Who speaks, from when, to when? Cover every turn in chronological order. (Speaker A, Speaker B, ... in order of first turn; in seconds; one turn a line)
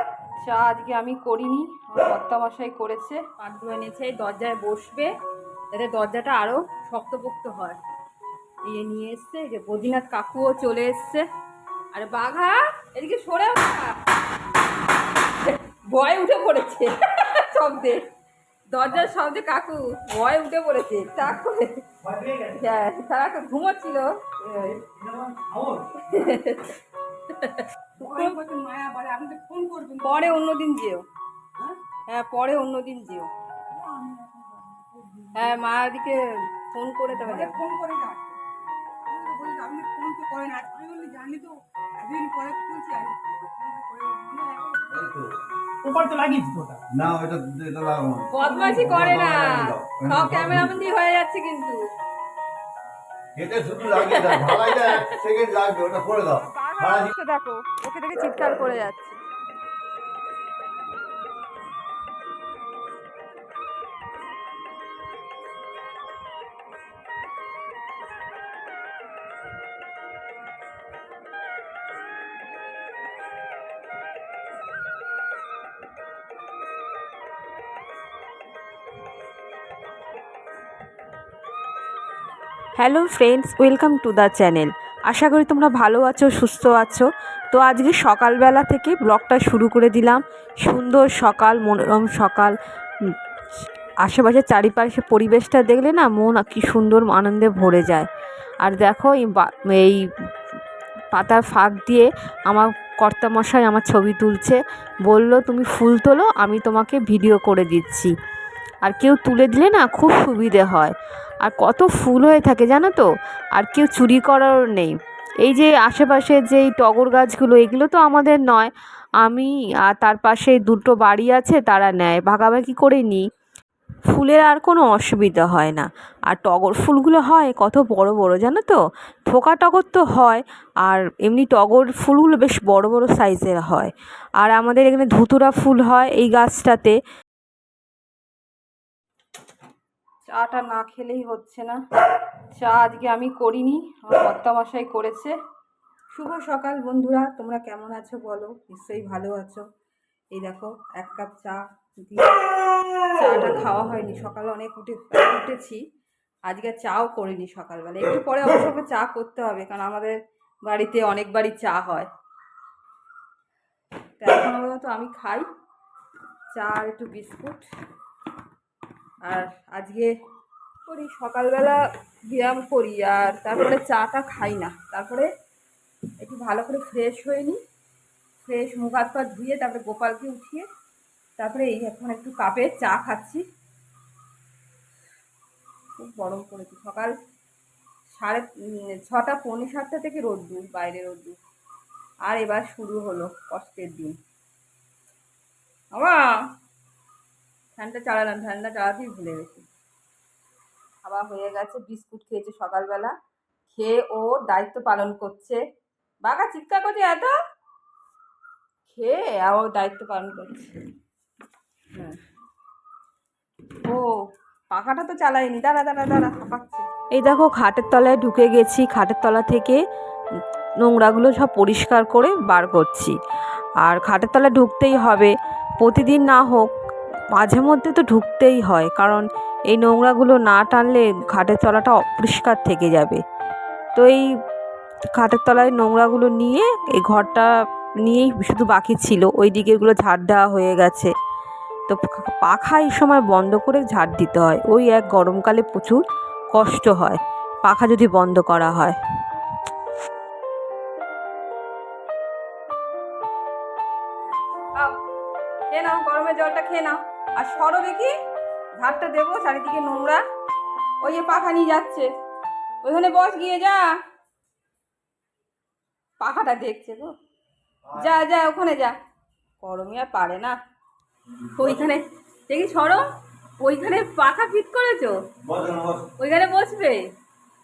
Speaker A: 0.4-5.1
Speaker A: 5.7-7.8
Speaker A: 8.7-11.2
Speaker A: 11.9-14.0
Speaker A: 15.4-18.1
Speaker A: 18.7-21.8
Speaker B: 22.0-22.6
Speaker A: 22.6-24.8
Speaker B: 24.9-25.9
Speaker A: 26.0-26.8
Speaker A: 27.3-28.4
Speaker C: 28.0-30.3
Speaker A: 30.0-31.0
Speaker A: 32.1-33.3
Speaker C: 33.7-35.5
Speaker A: 35.3-37.6
Speaker C: 37.2-38.4
Speaker C: 39.1-45.0
Speaker D: 44.9-45.3
Speaker B: 45.8-46.8
Speaker D: 46.9-50.8
Speaker A: 48.3-51.8
Speaker C: 48.5-48.8
Speaker D: 53.4-57.1
Speaker A: 54.0-55.1
Speaker A: 56.4-59.2
Speaker E: 82.8-92.5
Speaker E: 94.0-98.1
Speaker E: 98.6-100.0
Speaker E: 101.1-108.1
Speaker E: 108.8-118.7
Speaker E: 119.2-123.2
Speaker E: 124.1-128.8
Speaker E: 129.3-136.9
Speaker A: 140.3-141.8
Speaker A: 142.5-145.3
Speaker A: 146.1-149.6
Speaker A: 150.3-152.5
Speaker A: 153.1-155.8
Speaker A: 156.4-160.1
Speaker A: 160.6-162.1
Speaker A: 164.2-165.4
Speaker A: 166.5-167.6
Speaker A: 169.2-170.1
Speaker A: 170.8-175.3
Speaker A: 176.2-177.6
Speaker A: 178.4-180.7
Speaker A: 181.4-183.4
Speaker A: 186.0-187.1
Speaker A: 188.1-191.4
Speaker A: 192.2-194.1
Speaker A: 195.9-196.4
Speaker A: 197.8-199.7
Speaker A: 201.0-203.1
Speaker A: 203.7-205.6
Speaker A: 206.2-207.3
Speaker A: 208.9-210.8
Speaker A: 211.9-212.2
Speaker A: 213.8-216.8
Speaker E: 217.1-219.8
Speaker E: 220.8-223.1
Speaker E: 223.8-226.7
Speaker E: 227.3-233.2
Speaker E: 233.9-234.2
Speaker E: 235.2-237.5
Speaker E: 238.0-241.1
Speaker E: 241.9-246.0
Speaker E: 246.5-248.9
Speaker A: 254.7-255.0
Speaker A: 255.7-258.1
Speaker A: 258.8-260.2
Speaker A: 261.0-262.1
Speaker A: 262.8-263.9
Speaker A: 266.2-267.1
Speaker D: 267.8-268.1
Speaker A: 268.0-268.9
Speaker A: 269.6-270.6
Speaker D: 271.5-271.8
Speaker A: 271.6-273.0
Speaker A: 273.6-275.2
Speaker D: 275.4-276.1
Speaker A: 276.2-277.0